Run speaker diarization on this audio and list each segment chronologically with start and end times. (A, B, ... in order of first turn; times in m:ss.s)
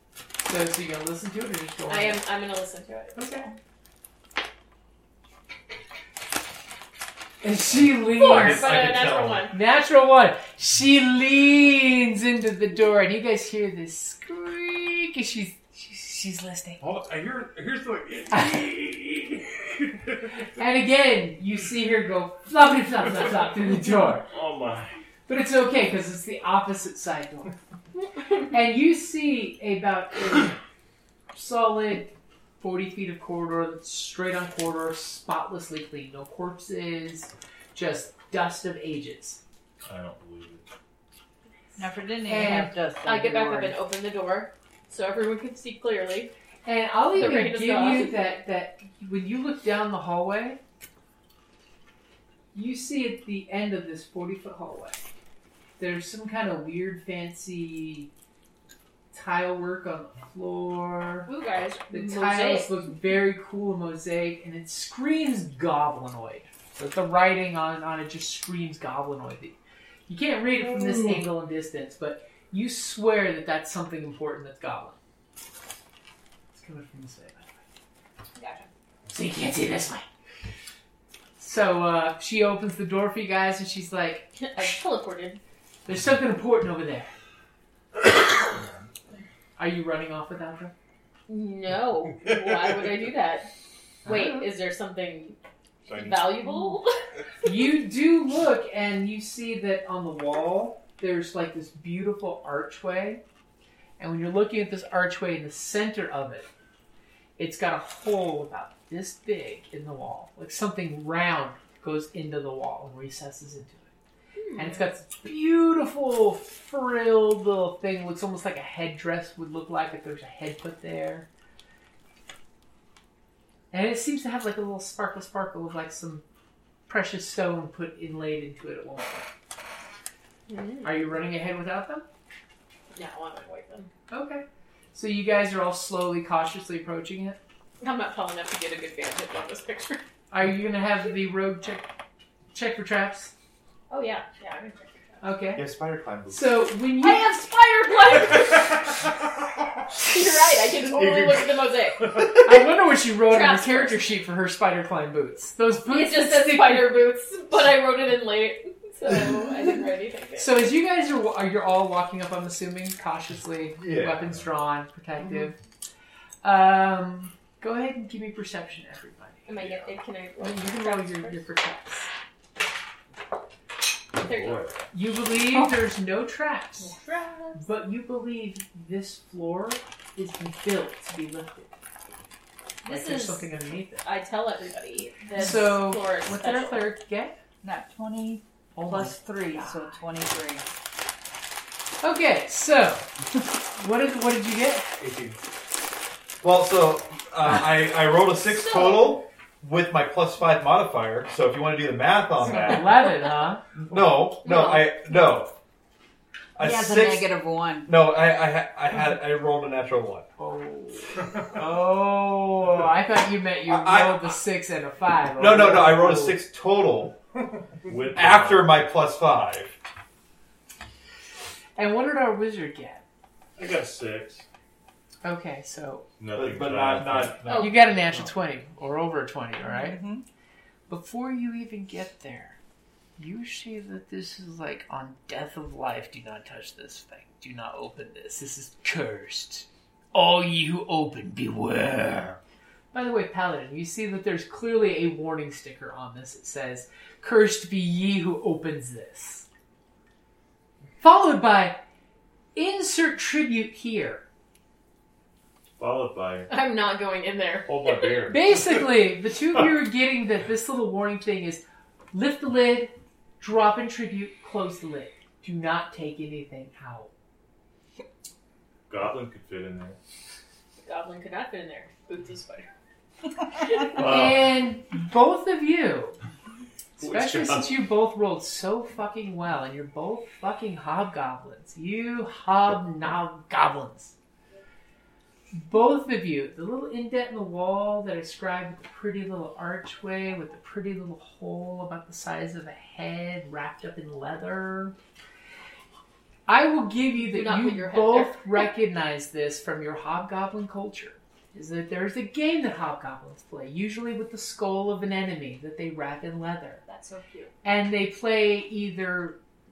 0:00.4-0:02.2 A
0:01.9-0:03.5 B
0:03.2-0:03.5 A
0:07.4-0:08.8 A
0:08.0-0:09.5 B
0:08.2-0:09.5 C
0:09.5-0:16.8 A
0:16.8-0:19.3 D
0:18.3-0:19.2 A
0:20.5-0:24.3 A
0:24.3-0:25.0 E
0:25.3-0:27.6 A
0:28.5-0:30.6 A
0:31.3-0:39.4 A
0:39.8-0:40.6 E
0:41.8-0:43.8 F
0:42.3-0:42.8 A
0:43.0-0:46.3 B
0:46.6-0:50.6 A
0:47.1-0:48.2 B
0:52.5-0:55.0 A
0:55.8-0:58.1 A
0:59.1-1:01.3 A
1:01.2-1:02.7 B
1:01.9-1:09.6 A
1:10.1-1:15.0 A
1:16.5-1:17.6 A
1:18.4-1:18.7 B
1:19.1-1:20.0 A
1:21.4-1:24.6 A
1:24.4-1:25.4 B
1:25.8-1:27.1 A
1:29.6-1:30.7 A
1:31.3-1:33.5 B
1:34.0-1:35.4 B
1:34.1-1:34.4 A
1:35.9-1:36.4 D
1:35.9-1:37.0 B
1:37.4-1:43.2 A
1:44.0-1:46.5 A
1:47.4-1:53.9 A
1:54.4-1:54.8 B
1:54.6-2:01.3 A
2:03.7-2:06.2 A
2:06.9-2:09.3 A
2:10.5-2:11.2 B
2:10.8-2:12.0 A
2:12.9-2:13.9 B
2:14.1-2:17.4 A
2:17.8-2:20.0 B
2:20.3-2:21.9 A
2:22.5-2:23.3 A
2:23.9-2:25.2 B
2:25.2-2:25.6 A
2:25.6-2:26.7 C
2:26.3-2:27.3 A
2:26.9-2:28.9 B
2:30.0-2:32.2 B
2:32.2-2:32.5 C
2:32.4-2:37.0 A
2:33.2-2:34.0 B
2:35.8-2:40.7 B
2:40.4-2:45.6 A
2:43.8-2:44.4 C
2:46.4-2:52.1 A
2:49.4-2:51.5 B
2:54.2-2:54.9 B
2:54.2-2:54.7 E
2:54.9-2:56.9 A
2:55.4-2:55.8 F
2:56.8-2:57.6 B
2:57.6-3:01.8 A
3:02.8-3:03.5 B
3:02.8-3:04.0 A
3:04.0-3:06.8 B
3:05.4-3:07.4 A
3:07.6-3:10.6 F
3:08.8-3:10.0 A
3:12.0-3:13.1 A
3:13.7-3:14.9 A
3:15.0-3:15.4 C
3:16.4-3:22.9 C
3:18.4-3:19.2 B
3:22.4-3:23.6 A
3:23.8-3:25.5 C
3:24.4-3:25.4 B
3:26.6-3:27.3 C
3:26.6-3:27.9 F
3:27.8-3:30.3 C
3:30.4-3:36.4 A
3:33.7-3:34.4 C
3:35.3-3:37.2 C
3:37.9-3:38.8 E
3:38.1-3:39.8 C
3:41.8-3:43.0 A
3:43.6-3:44.5 E
3:45.2-3:46.0 A
3:46.2-3:47.4 E
3:46.3-3:48.2 C
3:47.4-3:47.8 B
3:47.6-3:50.0 A
3:49.6-3:50.2 F
3:50.9-3:52.6 A
3:53.2-4:02.4 A
4:02.9-4:09.4 A
4:11.0-4:11.8 A
4:12.5-4:14.2 A
4:15.8-4:16.5 E
4:16.5-4:18.3 B
4:17.6-4:18.5 E
4:18.3-4:27.1 A
4:28.9-4:30.0 E
4:30.8-4:32.7 B
4:34.0-4:34.5 E
4:34.0-4:36.2 A
4:37.0-4:44.1 A
4:37.0-4:37.7 E
4:45.5-4:54.9 A
4:56.5-5:06.8 A
4:57.2-4:58.4 B
5:06.8-5:07.5 B
5:07.6-5:09.4 A